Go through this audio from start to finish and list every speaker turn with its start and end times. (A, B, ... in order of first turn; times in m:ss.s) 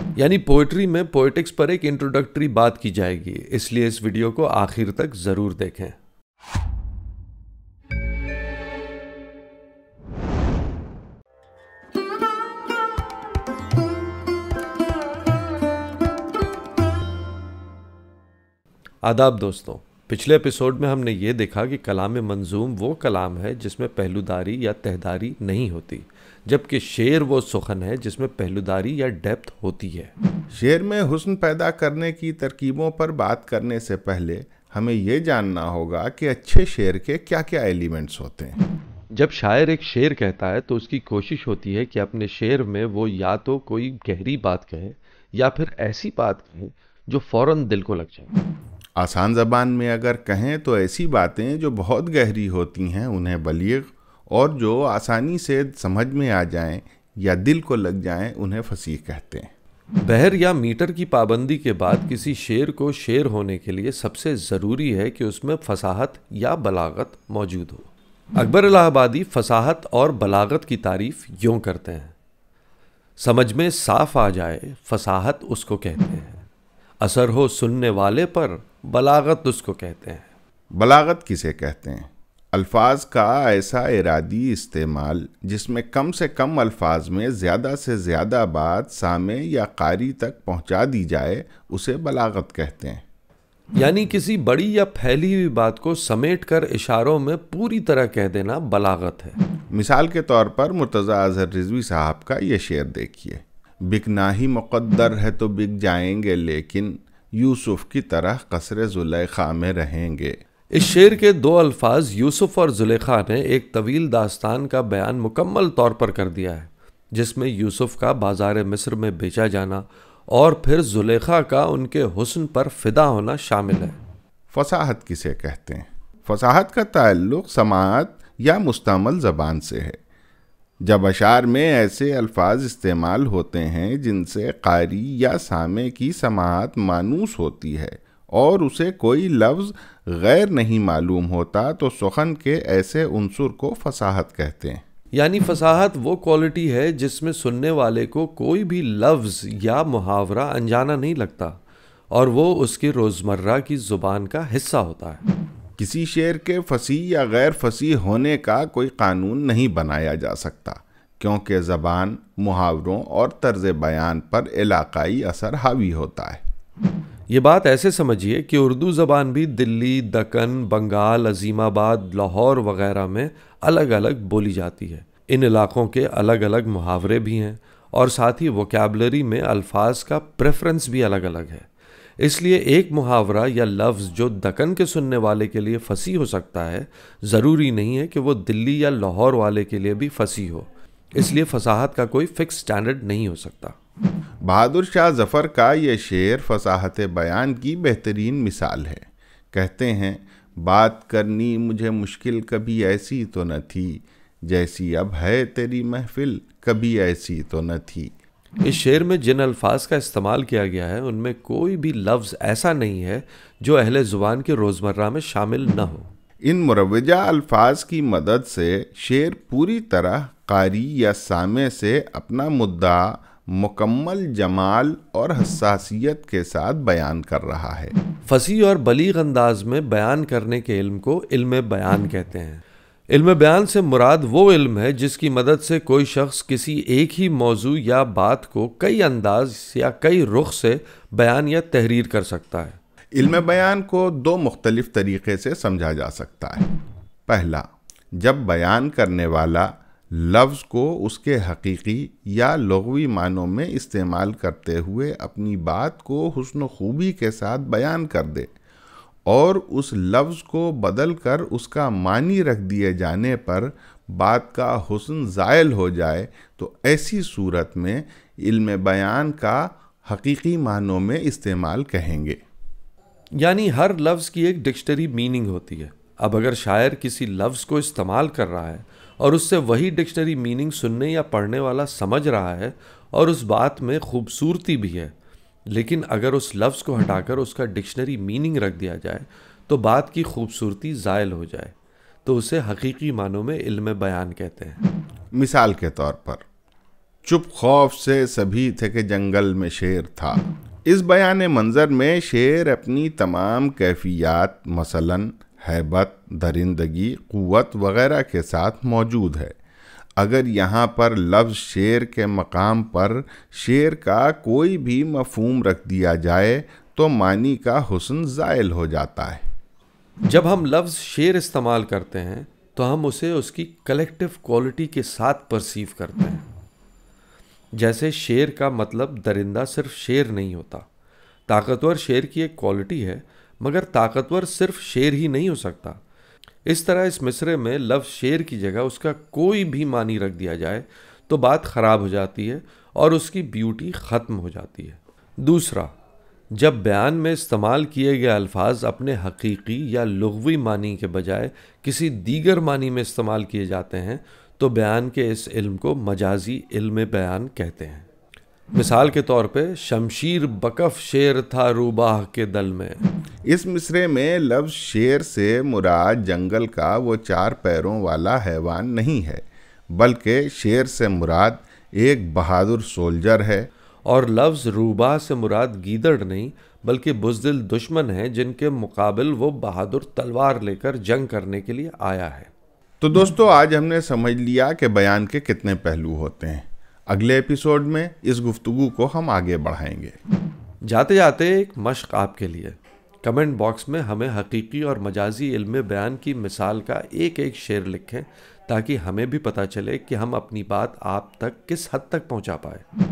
0:00.2-0:06.0 A
0:19.0-0:30.1 A
0:30.5-0:38.6 B
0:39.1-0:48.3 A
0:49.0-0:59.5 B
1:00.0-1:12.1 A
1:13.2-1:16.4 A
1:17.0-1:20.3 A
1:20.8-1:33.0 B
1:33.8-1:39.4 A
1:39.7-1:50.4 B
1:50.7-2:04.0 A
2:04.5-2:10.0 B
2:10.8-2:24.8 B
2:25.1-2:31.6 A
2:32.1-2:35.2 A
2:35.8-2:46.4 B
2:47.3-3:01.7 A
3:02.2-3:13.8 A
3:14.4-3:28.1 B
3:28.6-3:36.1 A
3:36.4-3:48.0 B
3:48.3-4:02.8 A
4:03.2-4:06.7 B
4:07.3-4:18.5 B
4:19.3-4:32.4 B
4:33.4-4:45.1 A
4:45.7-4:54.8 A
4:55.3-4:56.4 B
4:57.2-5:09.6 B
5:10.2-5:19.4 B
5:20.3-5:26.4 A
5:27.8-5:30.9 A
5:31.5-5:36.0 A
5:36.7-5:45.9 A
5:46.5-5:58.1 A
5:58.7-6:03.0 A
6:03.5-6:13.7 B
6:14.1-6:22.5 A
6:23.0-6:30.2 B
6:30.8-6:42.8 A